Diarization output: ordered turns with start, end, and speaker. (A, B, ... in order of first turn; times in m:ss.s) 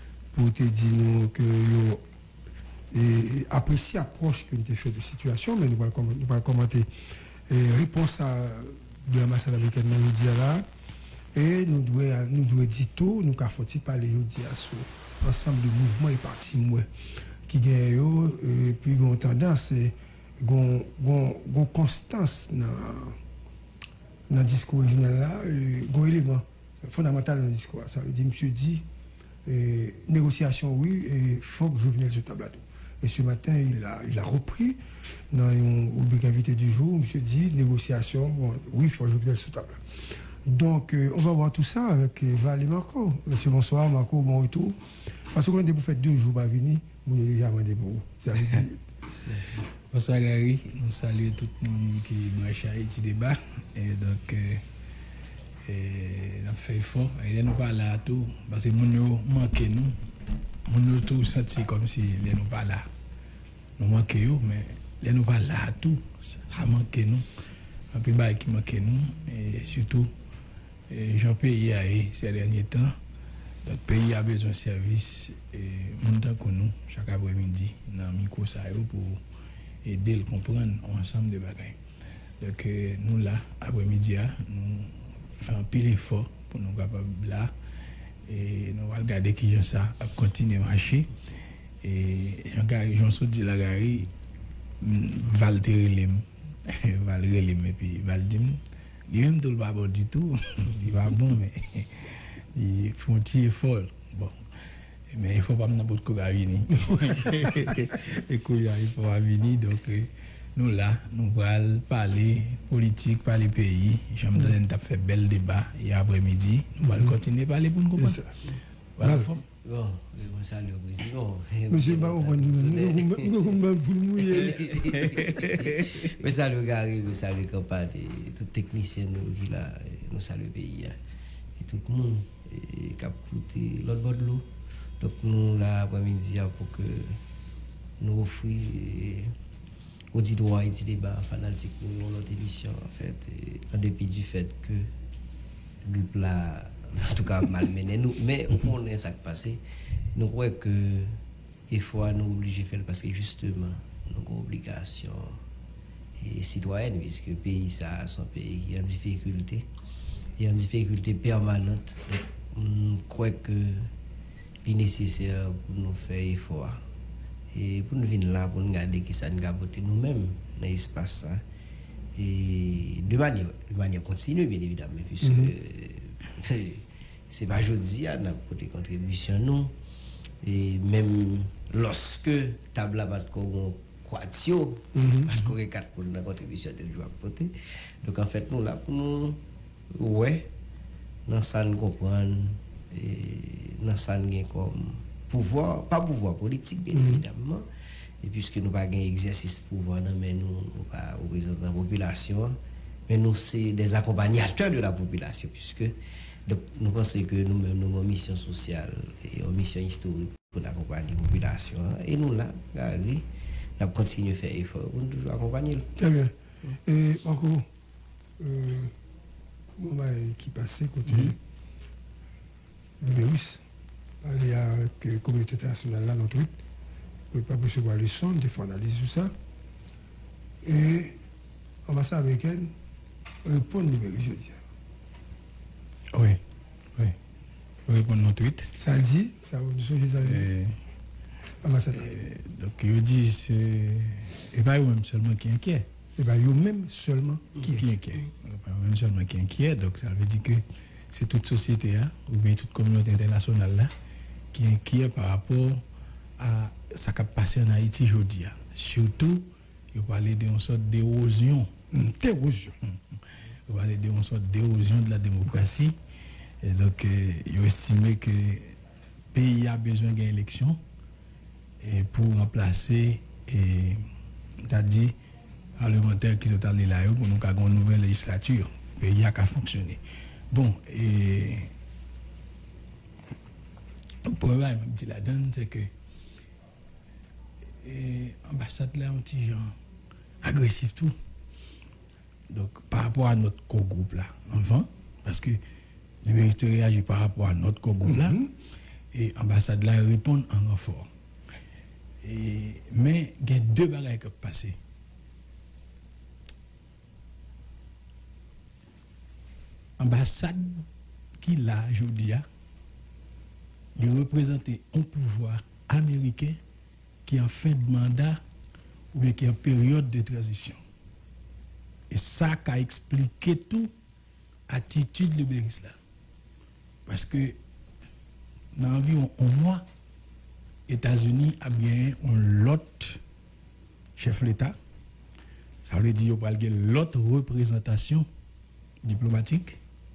0:00.3-0:02.0 A
0:02.9-0:06.9 A
0:07.5-0:10.7 A
0:11.3-0:16.9 A
0:17.5-0:23.2 A
0:24.3-0:28.8 A
0:29.4-0:44.8 A
0:45.3-0:48.8 A
0:49.9-0:54.6 B
0:55.7-1:00.0 B
1:00.7-1:02.9 B
1:03.8-1:07.3 B
1:07.9-1:10.1 B
1:10.9-1:13.0 B
1:13.6-1:19.2 B
1:19.8-1:21.8 B
1:22.4-1:27.5 B
1:28.3-1:31.1 B
1:31.8-1:34.1 B
1:34.8-1:44.4 B
1:45.1-1:58.3 B
1:58.0-1:58.3 A
1:59.0-1:59.4 B
1:59.0-1:59.3 A
1:59.6-2:03.4 C
2:01.7-2:05.2 A
2:04.3-2:11.0 C
2:05.2-2:05.8 B
2:11.6-2:14.5 C
2:15.0-2:17.2 C
2:18.0-2:19.3 C
2:20.1-2:24.9 C
2:25.8-2:29.6 C
2:30.2-2:31.2 C
2:31.7-2:35.4 C
2:36.2-2:39.7 C
2:40.4-2:43.9 C
2:44.6-2:46.8 C
2:47.5-2:51.4 C
2:52.2-2:59.8 C
2:55.2-2:55.5 A
3:00.4-3:09.4 C
3:05.0-3:05.3 A
3:09.9-3:10.5 C
3:11.3-3:17.7 C
3:16.9-3:17.2 A
3:18.2-3:33.2 C
3:33.8-3:35.9 C
3:36.0-3:37.7 A
3:38.4-3:39.0 A
3:39.8-3:41.4 A
3:43.0-3:43.6 A
3:44.2-3:46.6 A
3:47.3-3:49.3 A
3:50.6-3:51.2 A
3:51.9-3:52.7 A
3:53.4-3:54.6 A
3:56.1-3:56.4 B
3:57.9-3:58.7 B
3:58.8-4:00.5 A
4:00.2-4:00.8 B
4:01.6-4:02.1 A
4:02.0-4:05.9 B
4:06.2-4:08.0 A
4:07.6-4:13.9 B
4:14.5-4:15.8 B
4:16.4-4:21.7 B
4:21.9-4:22.8 A
4:22.8-4:26.0 B
4:26.6-4:28.8 B
4:29.3-4:30.8 B
4:31.8-4:34.0 B
4:34.6-4:35.1 B
4:35.8-4:40.0 B
4:40.5-4:41.7 B
4:44.2-4:45.9 B
4:47.8-4:49.7 B
4:50.4-4:51.2 B
4:52.5-4:55.6 B
4:56.2-4:58.4 B
4:58.0-4:58.5 A
4:59.1-5:01.1 B
5:02.2-5:04.8 B
5:10.0-5:10.8 B
5:11.4-5:12.5 B
5:14.0-5:16.6 B
5:17.3-5:18.4 B
5:19.1-5:20.8 B
5:22.1-5:23.9 B
5:24.7-5:26.0 B
5:27.1-5:27.6 B
5:28.8-5:29.8 B
5:30.9-5:33.2 B
5:34.2-5:34.8 B
5:35.9-5:38.3 B
5:39.0-5:39.8 B